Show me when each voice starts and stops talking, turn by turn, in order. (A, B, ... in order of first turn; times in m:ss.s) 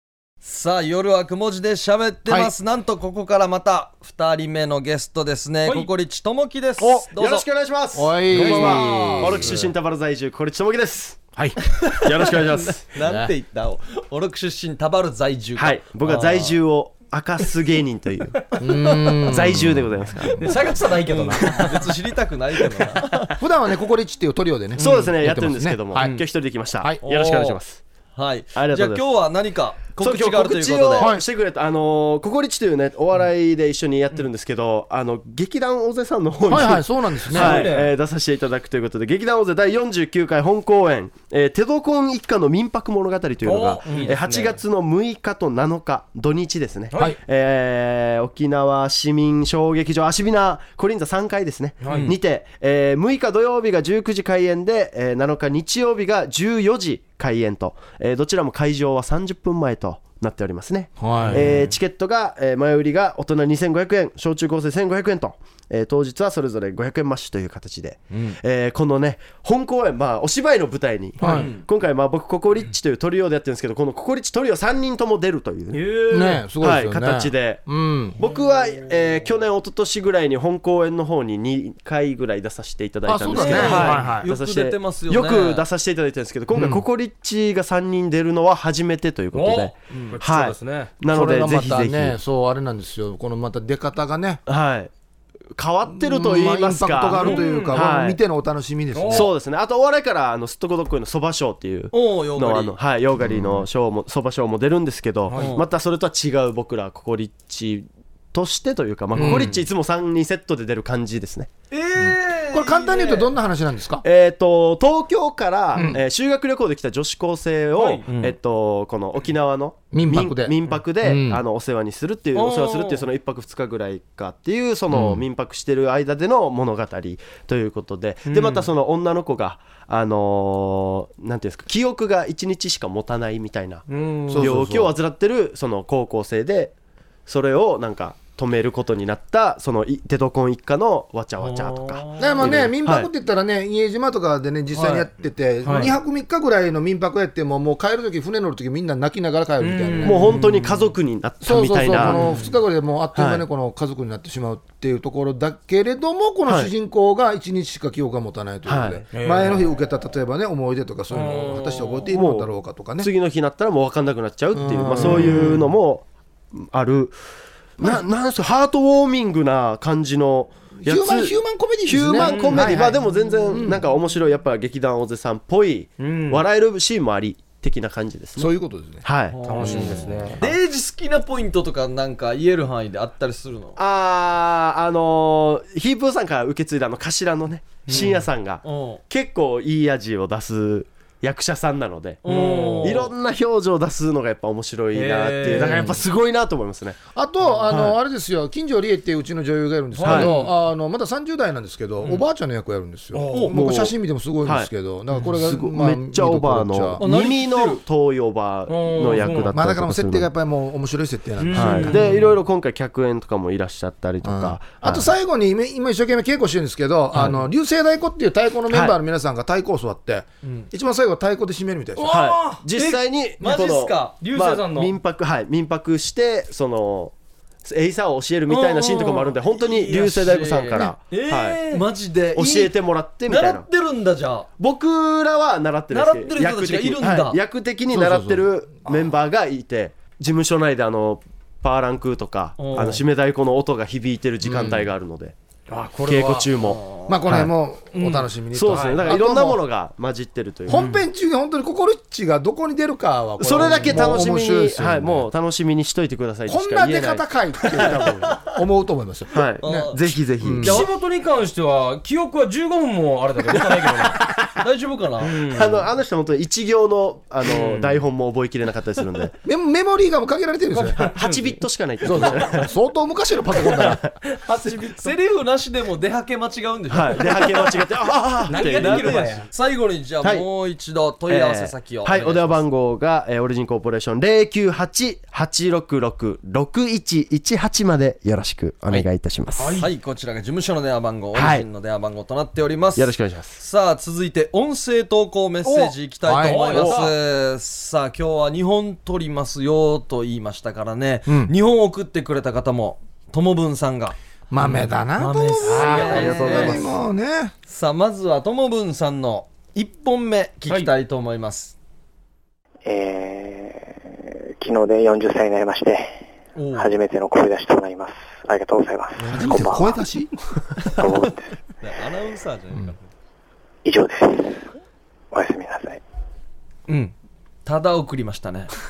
0:00.4-0:07.5 A
0:02.3-0:02.5 B
0:05.6-0:05.9 C
0:06.8-0:07.1 B
0:07.1-0:11.3 D
0:07.9-0:09.7 B
0:08.3-0:09.2 A
0:08.3-0:09.1 C
0:11.4-0:11.8 B
0:12.0-0:12.9 D
0:12.7-0:16.6 A
0:15.6-0:20.7 D
0:18.6-0:20.4 B
0:20.4-0:21.9 C
0:21.1-0:23.3 A
0:22.6-0:23.3 C
0:23.4-0:26.1 B
0:24.8-0:27.8 D
0:27.1-0:27.6 A
0:27.1-0:27.4 C
0:28.2-0:31.1 A
0:28.5-0:29.1 D
0:30.0-1:15.9 D
0:31.0-0:31.2 B
0:36.4-0:37.7 B
0:37.3-0:37.9 C
0:37.3-0:37.8 A
0:43.4-0:44.6 C
0:43.9-0:44.1 A
0:51.8-0:52.2 C
0:51.9-0:52.1 A
1:01.0-1:01.7 B
1:01.3-1:01.5 C
1:11.2-1:11.5 B
1:11.3-1:11.6 A
1:15.7-1:16.5 C
1:16.1-1:18.2 B
1:16.6-1:32.2 D
1:23.0-1:24.2 B
1:23.3-1:25.6 A
1:23.5-1:24.2 C
1:26.5-1:26.8 B
1:29.3-1:30.9 C
1:31.1-1:34.4 B
1:34.5-1:34.9 D
1:35.5-1:38.2 D
1:35.9-1:39.3 B
1:37.2-1:37.8 C
1:38.9-1:39.3 C
1:39.1-1:51.5 D
1:41.9-1:42.8 A
1:43.2-1:43.7 B
1:45.3-1:45.6 C
1:45.3-1:45.6 A
1:49.1-1:49.6 B
1:51.7-1:53.3 A
1:52.0-1:54.0 B
1:54.0-2:13.8 D
1:55.7-1:56.0 B
1:57.7-1:58.0 C
1:58.0-1:58.3 A
1:59.9-2:01.4 B
2:02.3-2:03.0 A
2:04.9-2:05.2 B
2:08.2-2:08.7 C
2:13.9-2:14.6 C
2:14.3-2:14.9 B
2:14.4-2:16.7 D
2:17.3-2:23.1 D
2:21.4-2:22.6 A
2:22.2-2:30.4 B
2:24.8-2:25.1 A
2:25.6-2:25.9 C
2:29.6-2:30.7 C
2:30.0-2:32.4 D
2:30.4-2:30.8 A
2:31.4-2:43.1 B
2:32.0-2:32.5 C
2:33.1-2:33.4 D
2:38.6-2:39.0 D
2:39.1-2:39.6 C
2:41.1-2:42.1 C
2:42.1-2:47.2 D
2:44.5-2:45.7 B
2:45.0-2:45.5 C
2:47.8-2:58.5 D
2:50.8-2:53.8 B
2:52.2-2:52.8 C
2:56.0-2:56.4 C
2:58.4-2:59.0 B
2:59.0-3:00.5 D
2:59.3-3:03.8 A
2:59.4-3:00.4 C
2:59.6-3:00.3 B
3:03.8-3:12.2 D
3:07.9-3:09.0 A
3:12.2-3:13.1 A
3:12.2-3:13.1 C
3:12.8-3:17.0 D
3:14.9-3:16.0 C
3:15.4-3:15.8 A
3:17.1-3:27.0 B
3:17.7-3:18.0 D
3:20.0-3:20.5 A
3:20.0-3:20.3 D
3:20.1-3:20.5 C
3:23.1-3:23.6 C
3:23.5-3:23.9 D
3:24.4-3:24.7 D
3:25.4-3:30.3 D
3:27.0-3:27.8 A
3:28.7-3:29.5 C
3:29.5-3:32.2 B
3:31.4-3:32.2 C
3:31.5-3:35.1 D
3:34.2-3:42.2 B
3:38.7-3:39.0 D
3:42.0-3:42.8 C
3:42.1-3:51.6 D
3:42.7-3:44.1 A
3:44.1-3:44.9 C
3:48.5-3:50.9 A
3:49.0-3:50.3 C
3:51.1-3:51.8 C
3:51.7-3:54.5 A
3:52.3-3:53.6 D
3:54.6-4:05.3 D
3:55.9-3:57.4 A
3:57.9-3:58.5 B
4:02.6-4:03.0 A
4:04.4-4:04.9 B
4:05.7-4:06.5 C
4:06.0-4:06.8 D
4:06.6-4:07.2 A
4:07.1-4:09.6 B
4:07.9-4:09.2 C
4:08.5-4:10.8 D
4:10.7-4:15.3 B
4:10.7-4:11.0 C
4:13.4-4:18.5 D
4:16.5-4:20.9 B
4:19.3-4:20.9 D
4:19.6-4:20.0 A
4:20.6-4:24.4 C
4:24.5-4:25.4 A
4:25.2-4:25.9 C
4:25.5-4:29.4 D
4:27.4-4:28.0 C
4:29.4-4:31.1 B
4:30.7-4:31.6 C
4:31.0-4:32.7 D
4:32.0-4:34.0 B
4:34.3-4:35.2 C
4:34.5-4:37.9 A
4:36.9-4:39.4 D
4:38.5-4:39.5 C
4:38.5-4:42.6 A
4:41.3-4:49.8 D
4:49.6-4:49.9 C
4:49.8-5:06.9 A
4:51.3-4:51.7 D
4:53.0-4:53.6 D
4:55.7-4:56.9 B
4:56.4-4:57.1 C
5:01.2-5:01.5 B
5:04.5-5:07.5 B
5:05.6-5:06.8 C
5:05.8-5:06.8 D
5:07.7-5:11.8 A
5:12.8-5:20.0 E
5:16.5-5:16.9 A
5:19.2-5:19.6 A
5:19.3-5:20.3 B
5:20.9-5:21.5 E
5:21.8-5:23.1 A
5:23.8-5:24.7 E
5:25.3-5:26.0 E
5:27.6-5:28.7 A